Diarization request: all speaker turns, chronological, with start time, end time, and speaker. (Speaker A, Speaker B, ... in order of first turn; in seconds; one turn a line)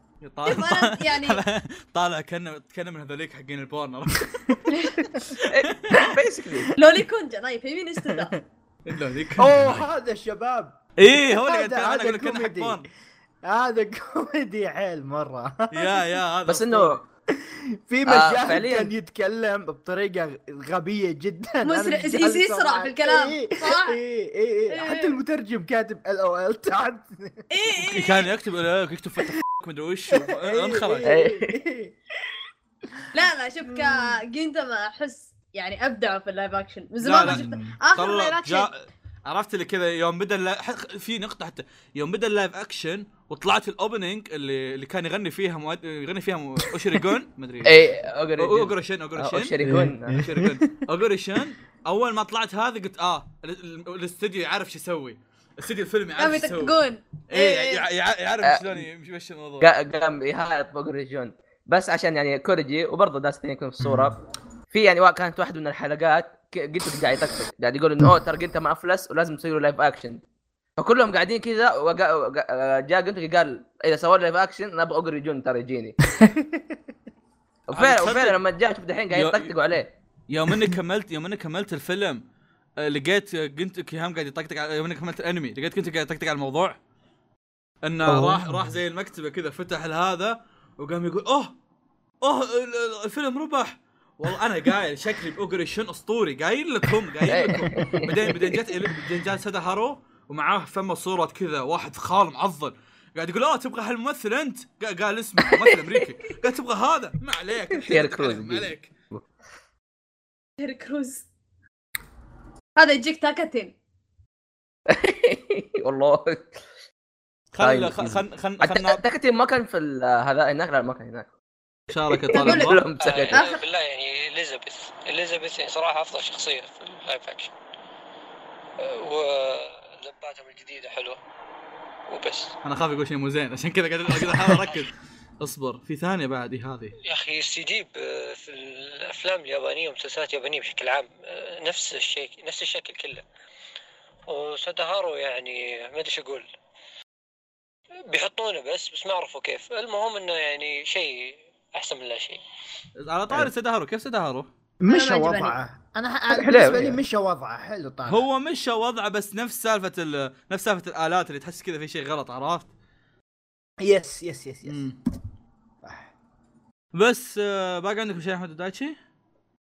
Speaker A: 0.2-4.6
Speaker B: 0.4-1.4
Speaker C: 4.5-5.2
Speaker B: 4.7-5.0
Speaker A: 5.3-6.1
Speaker D: 5.5-6.7
Speaker B: 6.8-8.3
Speaker A: 8.9-9.9
Speaker C: 9.4-12.8
Speaker A: 11.0-12.9
Speaker C: 13.4-16.0
Speaker A: 15.7-17.0
Speaker D: 16.5-16.9
Speaker C: 17.3-27.5
Speaker D: 18.1-18.9
Speaker B: 21.6-24.0
Speaker B: 24.7-25.1
Speaker B: 27.5-28.3
Speaker A: 27.9-31.1
Speaker C: 30.1-32.3
Speaker D: 31.0-31.5
Speaker B: 33.1-38.7
Speaker C: 33.7-34.1
Speaker A: 37.0-38.8
Speaker C: 37.2-37.8
Speaker A: 39.3-47.8
Speaker D: 47.6-50.2
Speaker A: 48.4-49.5
Speaker C: 49.6-50.8
Speaker A: 50.1-59.7
Speaker B: 56.2-57.9
Speaker D: 58.4-58.8
Speaker D: 59.6-64.2
Speaker C: 63.8-64.1
Speaker D: 64.7-70.2
Speaker D: 70.8-76.1
Speaker C: 76.1-76.8
Speaker D: 77.7-79.9
Speaker A: 77.7-78.4
Speaker A: 79.1-79.5
Speaker A: 80.3-82.2
Speaker A: 82.8-86.8
Speaker A: 87.8-91.5
Speaker C: 88.1-88.7
Speaker A: 92.2-108.9
Speaker D: 97.2-98.6
Speaker D: 105.5-106.0
Speaker D: 107.7-109.2
Speaker B: 110.6-111.2
Speaker B: 112.8-113.7
Speaker D: 114.9-116.6
Speaker A: 117.5-119.0
Speaker D: 117.6-121.3
Speaker A: 121.9-122.8
Speaker D: 122.1-123.4
Speaker B: 122.3-122.8
Speaker E: 123.0-127.5
Speaker E: 128.8-131.2
Speaker E: 132.1-132.5
Speaker A: 132.6-136.9
Speaker E: 134.4-134.8
Speaker E: 137.0-143.2
Speaker E: 144.3-146.4
Speaker E: 148.1-152.4
Speaker A: 153.0-154.5
Speaker C: 154.8-158.2
Speaker B: 154.9-155.6
Speaker D: 156.3-157.0
Speaker A: 158.1-162.7
Speaker C: 163.8-164.8
Speaker A: 164.7-165.0
Speaker C: 165.8-166.1
Speaker A: 166.9-168.9